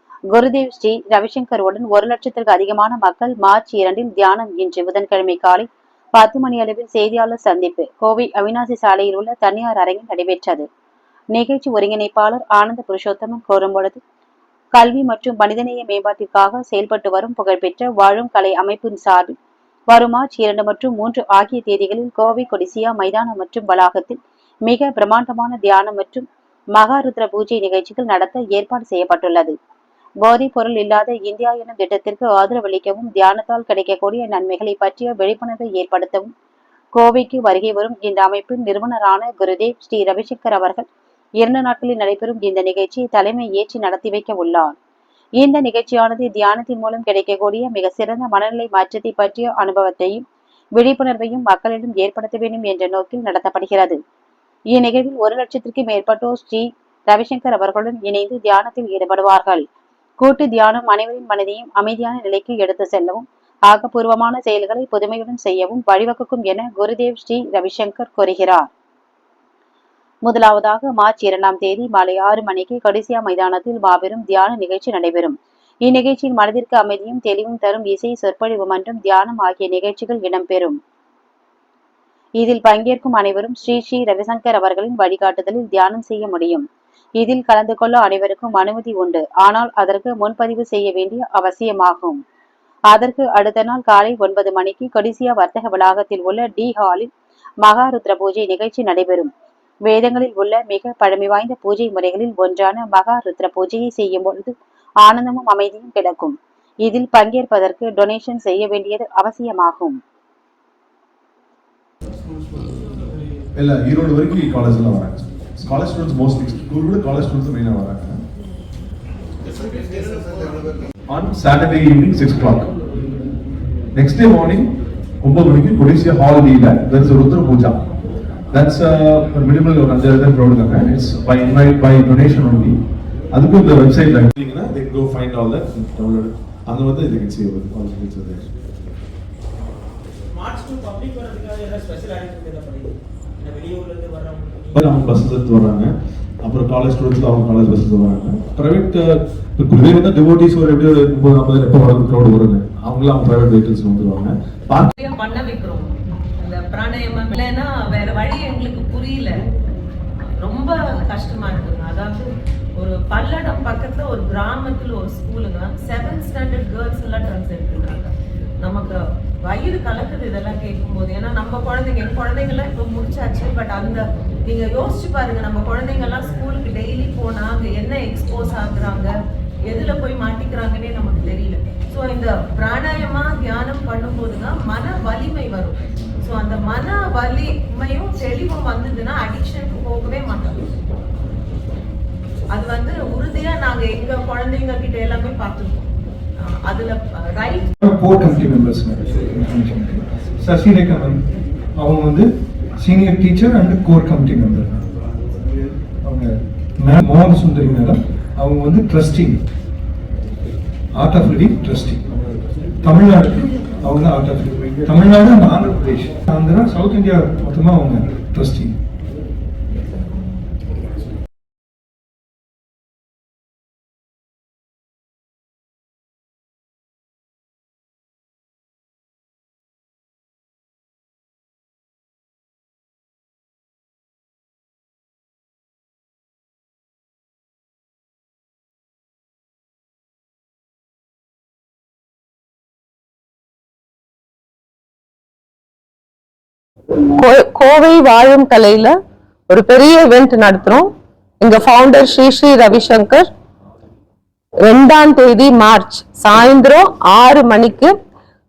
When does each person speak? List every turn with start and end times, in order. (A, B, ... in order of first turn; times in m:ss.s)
0:00.3-0:10.7 A
0:11.3-0:14.0 A
0:14.8-0:19.4 A
0:19.9-0:29.6 A
0:30.2-0:36.3 A
0:36.9-0:40.8 A
0:41.4-0:44.8 A
0:45.4-0:50.2 A
0:50.8-0:54.0 A
0:54.7-0:59.6 A
1:00.2-1:08.7 A
1:10.2-1:20.8 A
1:22.4-1:26.6 A
1:27.2-1:32.2 A
1:32.9-1:37.1 A
1:37.6-1:39.3 A
1:39.9-1:50.0 A
1:53.6-1:58.2 B
2:01.1-2:02.7 B
2:04.0-2:04.7 B
2:05.2-2:07.9 B
2:08.5-2:12.8 B
2:13.3-2:18.5 B
2:20.4-2:24.8 C
2:24.7-2:34.9 B
2:34.9-2:39.4 D
2:40.4-2:59.2 D
2:59.7-3:10.7 D
3:12.5-3:15.9 D
3:16.4-3:17.7 D
3:17.8-3:21.2 E
3:21.8-3:24.8 E
3:26.0-3:29.4 E
3:31.0-3:32.1 E
3:32.8-3:38.8 E
4:07.2-4:08.8 F
4:07.5-4:08.9 D
4:09.5-4:10.9 F
4:09.6-4:10.7 D
4:11.4-4:13.2 F
4:11.4-4:13.2 D
4:14.7-4:17.9 F
4:14.9-4:17.9 D